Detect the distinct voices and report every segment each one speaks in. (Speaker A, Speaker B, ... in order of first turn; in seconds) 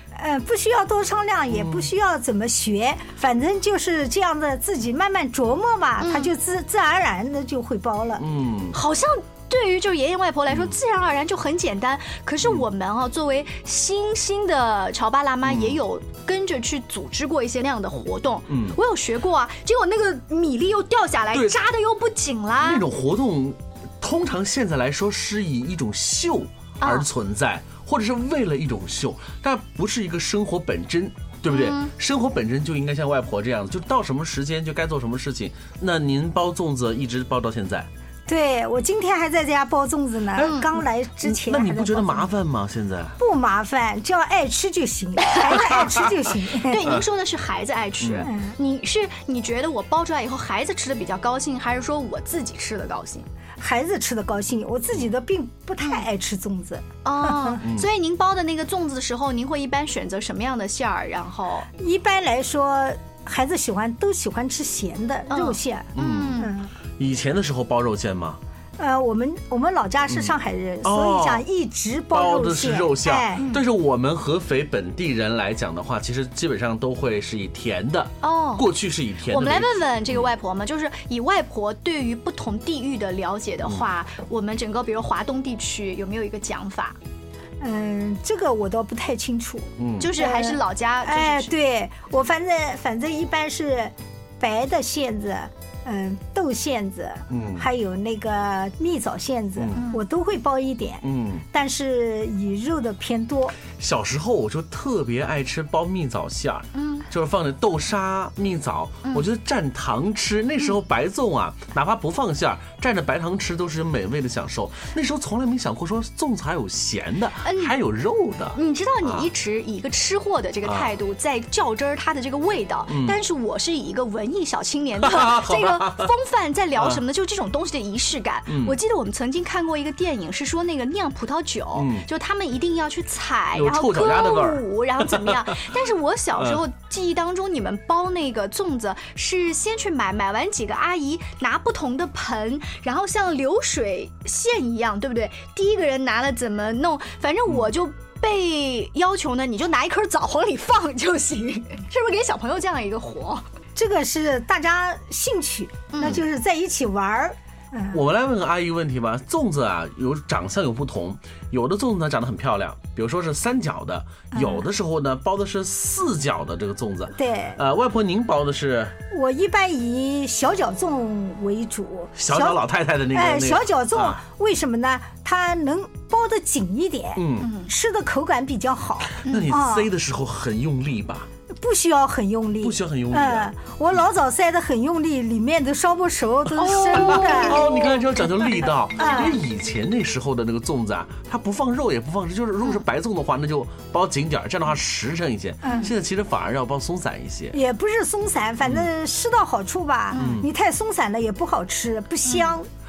Speaker A: 0.2-8.2, 38.3-42.3, 43.2-47.0, 48.2-48.6, 53.6-57.6, 61.8-66.7, 68.8-73.5, 87.6-103.6, 153.8-158.0, 164.3-164.7, 167.2-167.6, 169.1-179.9, 181.5-187.9, 189.0-189.4, 195.6-195.9, 197.5-202.7
Speaker B: 1.5-1.9, 8.2-8.8, 15.4-15.8, 18.5-18.8, 21.3-21.6, 22.6-37.9, 41.2-43.2, 48.0-48.3, 57.6-57.9, 66.0-68.4, 70.8-71.5, 72.1-80.2, 89.8-90.1, 97.3-97.7, 101.0-101.5, 103.7-119.3, 120.7-120.9, 122.9-123.2, 125.0-126.1, 128.5-128.8, 131.8-132.1, 133.6-135.6, 157.9-169.0, 172.2-174.2, 177.2-177.5, 179.3-181.3, 182.6-183.5, 186.9-197.6, 200.2-200.5
Speaker C: 6.0-6.3, 8.7-22.9, 26.8-27.1, 31.5-31.9, 46.6-53.3, 57.0-61.7, 65.3-66.6, 73.4-73.6, 78.2-78.8, 79.3-87.0, 90.0-91.5, 99.8-100.0, 106.7-107.1, 117.5-117.8, 118.6-153.4, 155.9-156.2, 177.4-177.7, 179.2-179.5, 186.6-188.0, 200.1-200.4, 202.2-202.6